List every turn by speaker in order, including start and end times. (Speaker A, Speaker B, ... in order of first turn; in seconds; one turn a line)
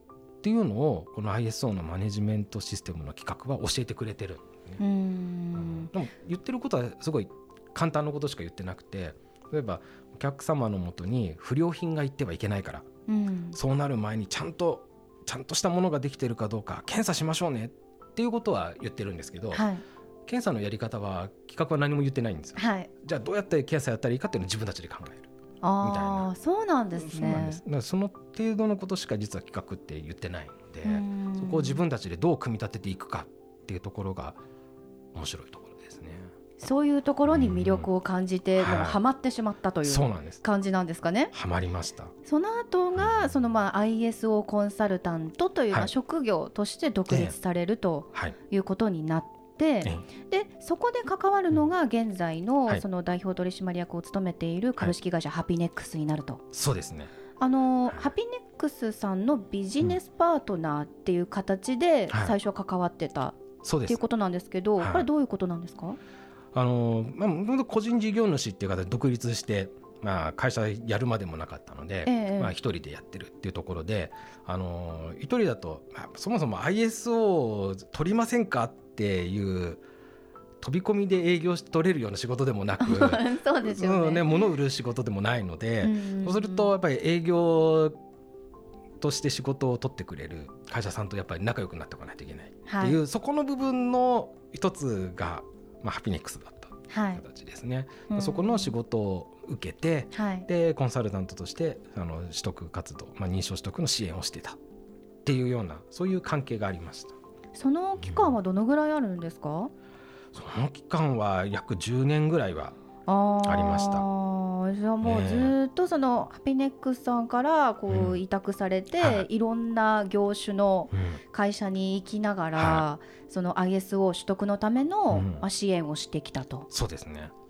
Speaker A: 0.4-4.8
Speaker B: 4.8-5.9
Speaker A: 5.5-12.9
Speaker B: 13.1-13.6
Speaker A: 13.5-19.7
Speaker B: 19.5-19.8
Speaker A: 20.2-25.3
Speaker B: 22.6-22.9
Speaker B: 25.6-27.6
Speaker A: 25.8-26.3
Speaker A: 26.9-34.4
Speaker B: 30.8-31.8
Speaker A: 35.1-36.3
Speaker B: 36.6-41.3
Speaker A: 37.3-37.9
Speaker A: 38.6-39.0
Speaker A: 39.8-40.4
Speaker A: 41.3-42.1
Speaker B: 42.2-56.4
Speaker A: 43.0-43.3
Speaker A: 47.1-47.4
Speaker A: 56.5-57.1
Speaker B: 57.4-66.0
Speaker A: 62.1-62.4
Speaker A: 63.6-64.0
Speaker A: 64.8-65.1
Speaker A: 66.5-79.8
Speaker B: 72.0-72.5
Speaker A: 80.6-88.0
Speaker B: 82.8-84.4
Speaker B: 85.8-86.7
Speaker A: 89.0-104.6
Speaker B: 92.7-93.0
Speaker B: 96.9-97.2
Speaker B: 98.1-98.7
Speaker B: 100.1-100.5
Speaker A: 105.2-107.2
Speaker B: 107.5-109.7
Speaker A: 110.3-112.8
Speaker B: 113.1-126.7
Speaker A: 113.4-114.0
Speaker A: 115.0-115.5
Speaker A: 117.9-118.2
Speaker A: 119.0-119.3
Speaker A: 120.9-121.2
Speaker A: 122.5-122.9
Speaker A: 125.1-125.4
Speaker A: 126.7-127.3